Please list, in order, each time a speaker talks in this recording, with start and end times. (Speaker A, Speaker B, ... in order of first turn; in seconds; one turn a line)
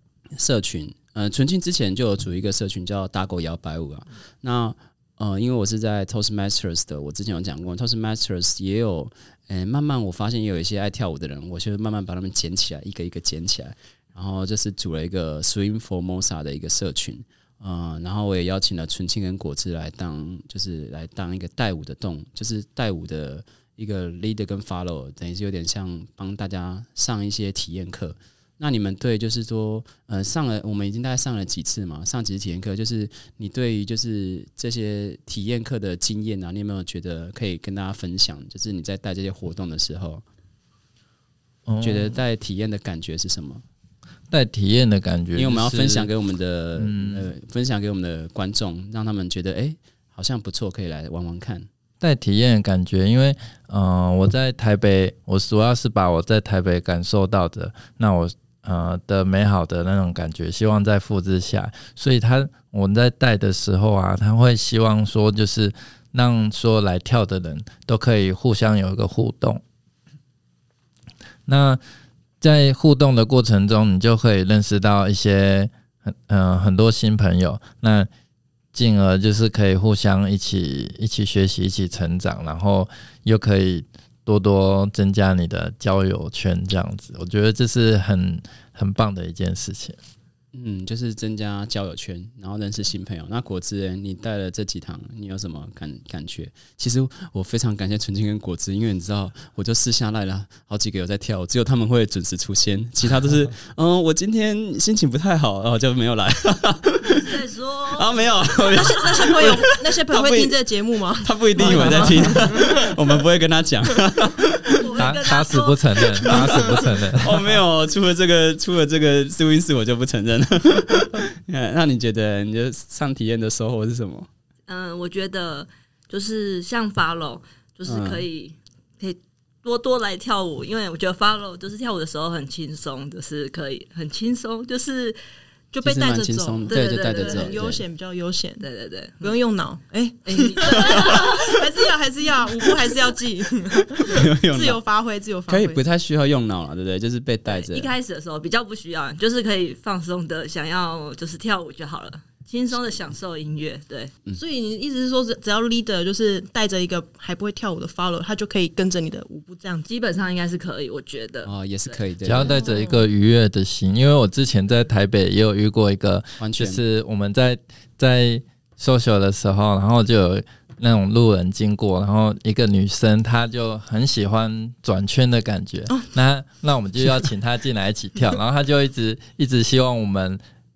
Speaker A: 0.3-40.2
Speaker B: 41.6-42.2
Speaker A: 41.8-43.6
Speaker B: 44.3-46.1
Speaker A: 45.3-51.7
Speaker B: 46.8-47.3
Speaker B: 52.0-69.6
Speaker B: 71.5-71.8
Speaker B: 72.4-78.1
Speaker B: 78.7-90.0
Speaker A: 90.5-107.3
Speaker C: 107.0-109.4
Speaker A: 107.9-110.5
Speaker D: 108.7-112.7
Speaker A: 111.2-114.8
Speaker B: 111.6-112.1
Speaker C: 114.8-116.8
Speaker B: 115.0-117.5
Speaker A: 116.6-124.3
Speaker C: 124.7-135.2
Speaker A: 127.8-128.2
Speaker D: 135.7-138.6
Speaker A: 135.8-137.8
Speaker C: 136.7-137.6
Speaker C: 138.6-139.3
Speaker D: 139.2-145.8
Speaker C: 140.2-141.7
Speaker A: 144.0-144.8
Speaker A: 145.5-147.9
Speaker C: 147.5-154.1
Speaker D: 154.3-159.8
Speaker C: 159.8-162.0
Speaker A: 161.4-162.6
Speaker B: 162.2-180.4
Speaker D: 162.4-163.0
Speaker A: 166.4-166.8